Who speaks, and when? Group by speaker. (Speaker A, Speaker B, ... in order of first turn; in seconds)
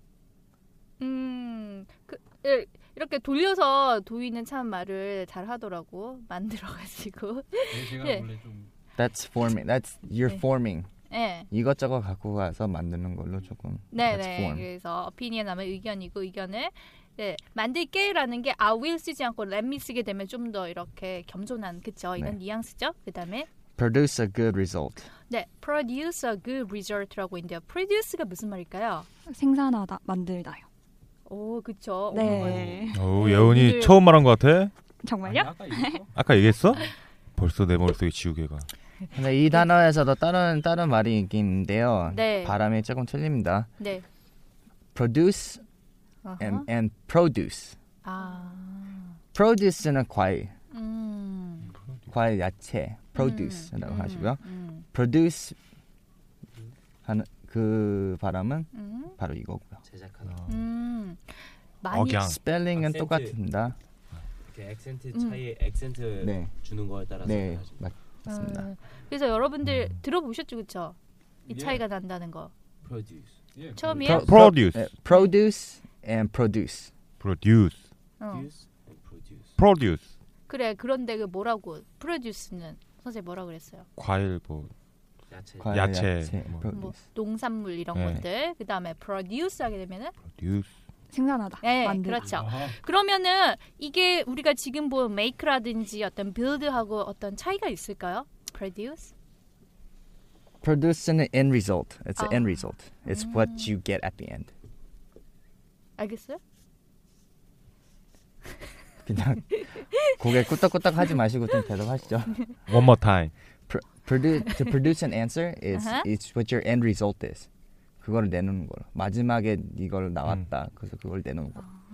Speaker A: 1.0-8.3, 11.1-11.5, 13.9-23.5, 25.3-29.1, 31.3-34.0, 42.1-42.6, 43.8-44.0, 46.2-46.7, 48.0-49.2, 50.7-51.7, 53.1-54.9, 58.7-59.1, 60.5-62.3, 65.2-65.4, 68.3-71.0, 71.5-72.5, 73.8-74.3, 78.2-78.5, 80.5-83.9, 86.7-90.2, 91.6-99.1, 102.2-103.8, 106.0-106.4, 109.6-110.2, 115.7-116.1
Speaker B: 7.7-8.7, 35.2-36.1, 71.5-71.8, 73.5-74.2, 92.3-92.8
Speaker C: 9.0-10.9, 11.5-14.7, 23.8-25.1, 39.1-43.7, 45.0-45.6, 46.4-47.8, 49.3-50.5, 52.1-55.6, 57.0-59.8, 62.2-63.8, 66.2-66.5, 67.2-68.7, 74.0-76.9, 85.6-87.0, 100.6-104.5, 109.0-112.5, 113.7-117.5, 118.0-121.7
Speaker D: 29.3-30.6, 32.1-33.0, 35.0-36.0, 91.1-92.3
Speaker E: 32.4-34.7, 36.1-38.7, 60.3-60.6, 61.9-62.4, 74.0-74.9, 77.2-77.8, 79.6-80.0, 84.0-84.7, 85.7-86.7, 88.0-88.2, 90.3-90.7, 112.7-113.3
Speaker F: 59.8-60.4, 62.8-63.4, 64.5-67.8, 72.8-73.3, 78.3-79.5, 85.3-85.8